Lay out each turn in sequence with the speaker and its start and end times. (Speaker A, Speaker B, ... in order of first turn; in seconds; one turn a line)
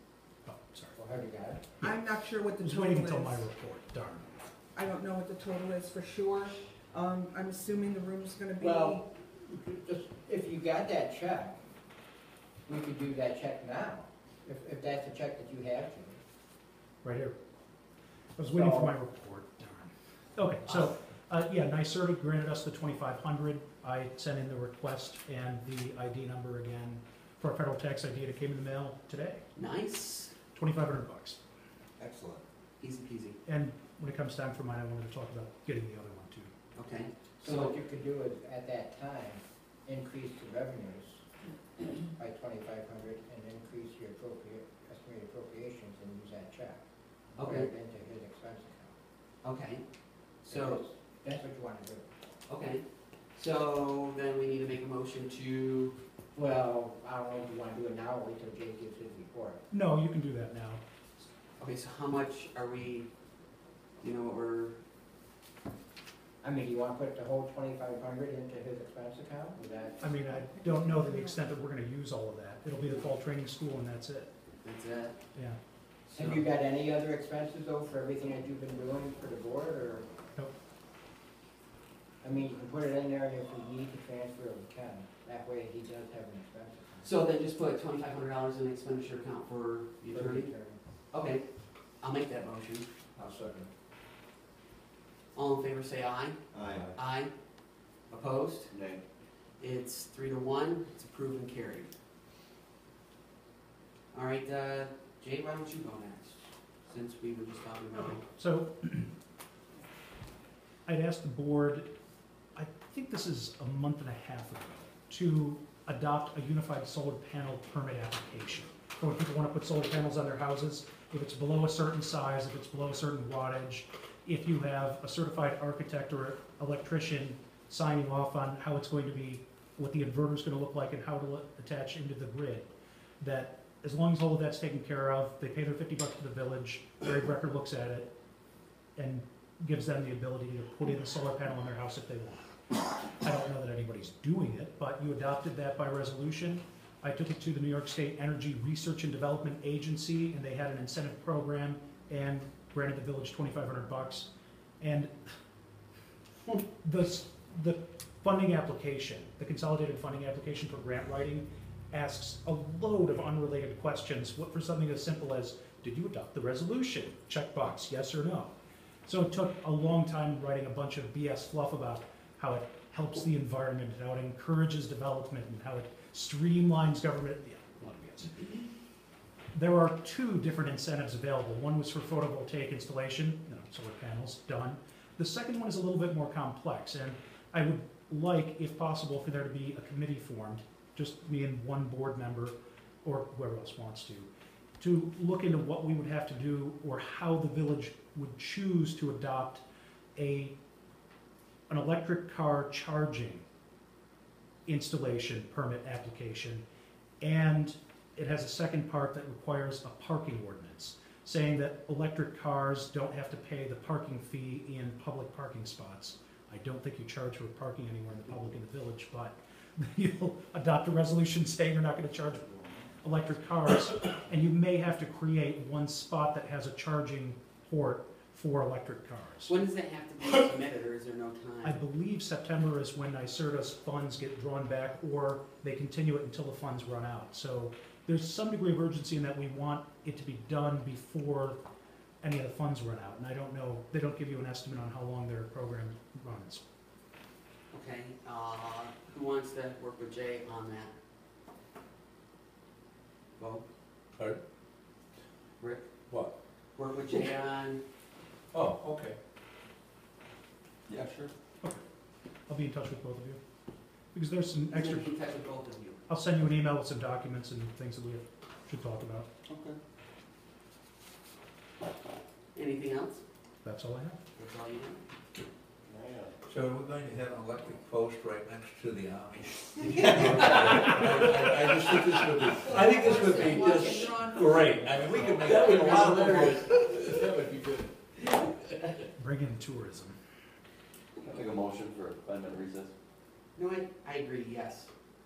Speaker A: 0.4-1.0
Speaker B: 0.9-1.7
Speaker C: 1.8-3.4
Speaker A: 2.6-4.3
Speaker C: 4.8-9.0
Speaker B: 8.6-11.6
Speaker B: 12.7-16.2
Speaker A: 17.0-17.4
Speaker A: 18.4-29.4
Speaker B: 18.5-18.9
Speaker D: 29.6-30.3
Speaker A: 30.5-31.4
Speaker E: 32.0-32.4
Speaker D: 32.8-33.4
Speaker A: 33.5-36.5
Speaker D: 36.7-37.7
Speaker B: 37.4-41.2
Speaker B: 42.2-46.8
Speaker B: 47.4-48.9
Speaker D: 47.4-47.7
Speaker D: 49.4-49.8
Speaker D: 50.4-50.8
Speaker B: 50.5-52.0
Speaker D: 52.5-52.8
Speaker D: 53.3-56.0
Speaker B: 56.3-59.6
Speaker A: 59.7-60.8
Speaker D: 61.6-63.1
Speaker D: 64.0-64.8
Speaker B: 66.4-70.0
Speaker A: 70.0-74.3
Speaker D: 74.6-75.2
Speaker D: 76.1-76.5
Speaker B: 76.1-80.1
Speaker B: 82.2-87.1
Speaker D: 87.0-90.5
Speaker B: 90.1-90.8
Speaker D: 91.1-91.4
Speaker D: 92.0-92.9
Speaker B: 93.2-93.7
Speaker D: 95.3-96.4
Speaker F: 96.5-96.9
Speaker B: 96.6-96.9
Speaker D: 97.0-97.3
Speaker D: 98.1-98.7
Speaker F: 98.7-99.0
Speaker D: 99.6-101.9
Speaker D: 104.1-108.2
Speaker A: 108.0-109.1
Speaker A: 110.9-111.9
Speaker A: 112.5-132.7
Speaker A: 133.2-138.1
Speaker A: 139.0-142.5
Speaker A: 143.2-154.3
Speaker A: 154.8-155.1
Speaker A: 156.8-168.5
Speaker A: 169.1-178.3
Speaker A: 179.5-194.3
Speaker A: 194.8-199.6
Speaker A: 200.2-200.6
Speaker A: 201.7-203.4
Speaker A: 204.7-206.6
Speaker A: 207.2-229.5
Speaker D: 229.5-231.8
Speaker A: 231.6-241.6
Speaker A: 242.2-246.6
Speaker D: 247.7-250.9
Speaker D: 253.4-253.6
Speaker D: 255.6-255.9
Speaker D: 256.8-257.8
Speaker E: 258.5-259.2
Speaker F: 260.9-261.3
Speaker A: 262.5-263.4
Speaker A: 264.1-265.1
Speaker D: 264.7-266.0
Speaker A: 266.1-269.3
Speaker F: 269.5-269.8
Speaker D: 272.6-273.2
Speaker A: 273.6-274.2
Speaker D: 274.4-275.0
Speaker F: 275.9-276.3
Speaker E: 276.5-287.7
Speaker C: 279.9-280.8
Speaker C: 282.2-285.3
Speaker F: 285.2-287.2
Speaker A: 289.2-290.2
Speaker F: 291.2-292.9
Speaker D: 293.6-294.9